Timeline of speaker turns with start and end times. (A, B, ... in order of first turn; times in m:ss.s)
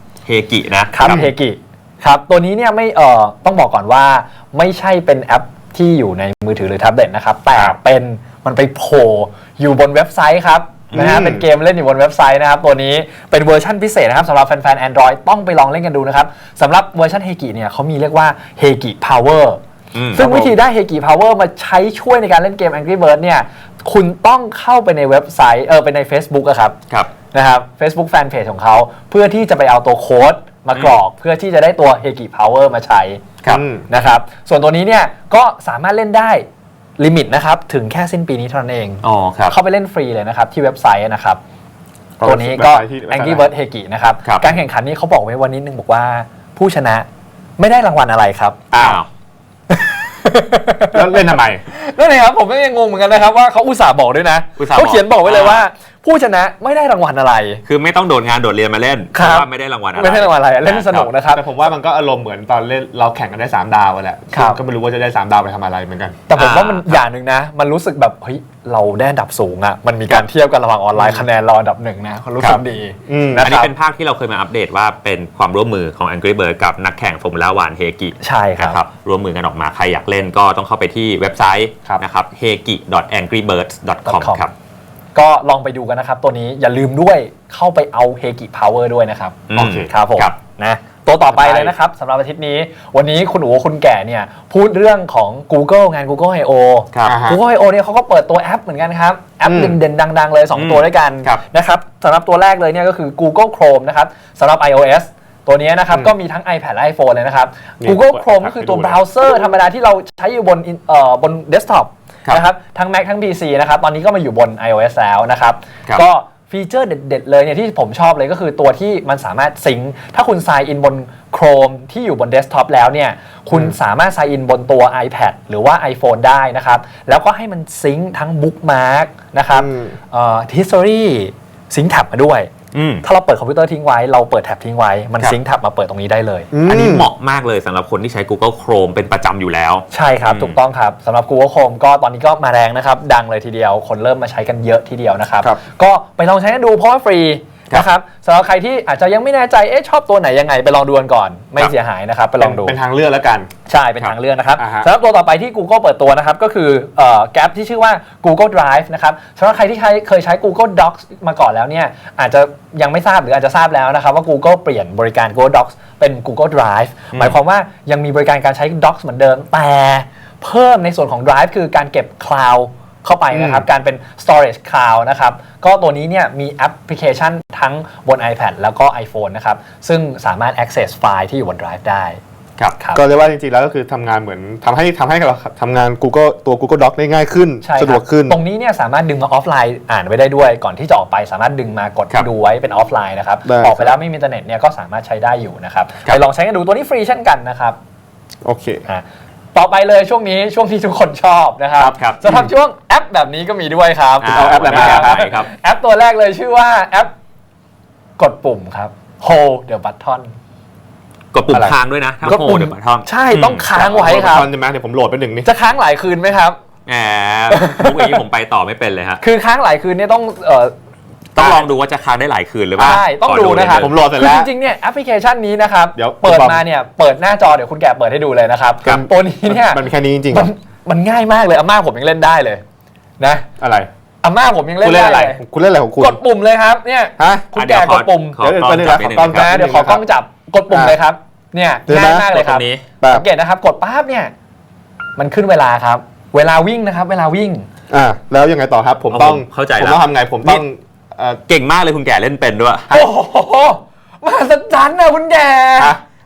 0:00.3-0:01.2 A
0:00.9-0:19.6 B
0:01.0-0:01.3 C
0:10.9-0:11.4 C
0:19.9-0:20.2 A
0:20.1-0:26.8 B
0:20.2-0:20.6 C
0:27.3-0:33.2 B
0:30.7-0:31.0 A
0:33.5-0:33.9 C
0:33.9-0:36.4 B
0:37.0-0:41.4 B
0:39.0-0:39.5 A
0:42.2-0:43.5 C
0:42.2-0:47.0 B
0:44.2-0:44.6 A
0:47.6-0:48.6 B
0:48.7-0:49.0 C
0:48.7-0:49.1 A
0:49.7-0:57.6 B
0:50.9-0:51.6 C
0:54.6-0:55.6 A
0:57.6-1:01.1 A
0:59.1-1:01.4 B
1:01.3-1:06.2 C
1:04.3-1:04.6 B
1:06.3-1:13.7 B
1:06.4-1:07.0 A
1:10.9-1:11.2 C
1:13.1-1:13.5 C
1:13.4-1:24.5 A
1:18.2-1:18.8 B
1:24.0-1:24.4 B
1:25.1-2:12.5 B
1:29.5-1:30.3 A
1:29.5-1:29.9 C
1:31.3-1:31.7 C
1:36.9-1:37.2 A
1:37.0-1:37.4 C
1:39.4-1:39.8 C
1:40.5-1:41.4 A
1:47.8-1:49.0 C
2:09.5-2:09.9 C
2:12.7-2:13.0 A
2:13.0-2:16.5 B
2:16.5-2:17.1 C
2:16.6-2:20.6 A
2:19.9-2:32.8 B
2:32.4-2:33.5 C
2:33.7-3:02.2 B
2:34.6-2:34.9 C
2:53.3-2:53.6 C
3:02.8-3:03.0 B
3:02.9-3:08.4 C
3:07.6-3:17.8 B
3:13.4-3:13.9 C
3:18.4-3:18.8 C
3:18.9-3:27.1 B
3:21.8-3:22.2 A
3:22.2-3:22.5 C
3:24.2-3:25.5 A
3:24.3-3:25.2 C
3:28.2-3:30.3 B
3:31.3-3:33.7 A
3:31.5-3:32.5 C
3:32.2-3:34.5 B
3:33.8-3:35.5 C
3:35.4-3:36.6 B
3:36.8-3:39.2 A
3:37.5-3:38.2 B
3:39.2-3:40.7 B
3:41.4-3:43.9 A
3:41.4-3:41.6 C
3:42.8-3:43.0 C
3:42.8-3:52.6 B
3:43.6-3:44.5 C
3:46.0-3:46.6 C
3:48.8-3:50.5 C
3:53.2-3:53.5 B
3:53.6-3:53.9 C
3:54.2-3:55.4 B
3:54.8-3:56.2 C
3:56.0-3:58.4 B
3:57.2-3:57.5 C
3:57.5-3:59.5 A
3:58.4-4:00.0 C
3:59.3-4:04.3 B
4:00.7-4:01.0 C
4:01.9-4:02.3 C
4:02.2-4:02.8 A
4:03.0-4:03.2 C
4:05.2-4:07.7 B
4:07.9-4:11.4 C
4:09.1-4:10.6 A
4:11.5-4:12.9 A
4:12.9-4:16.0 B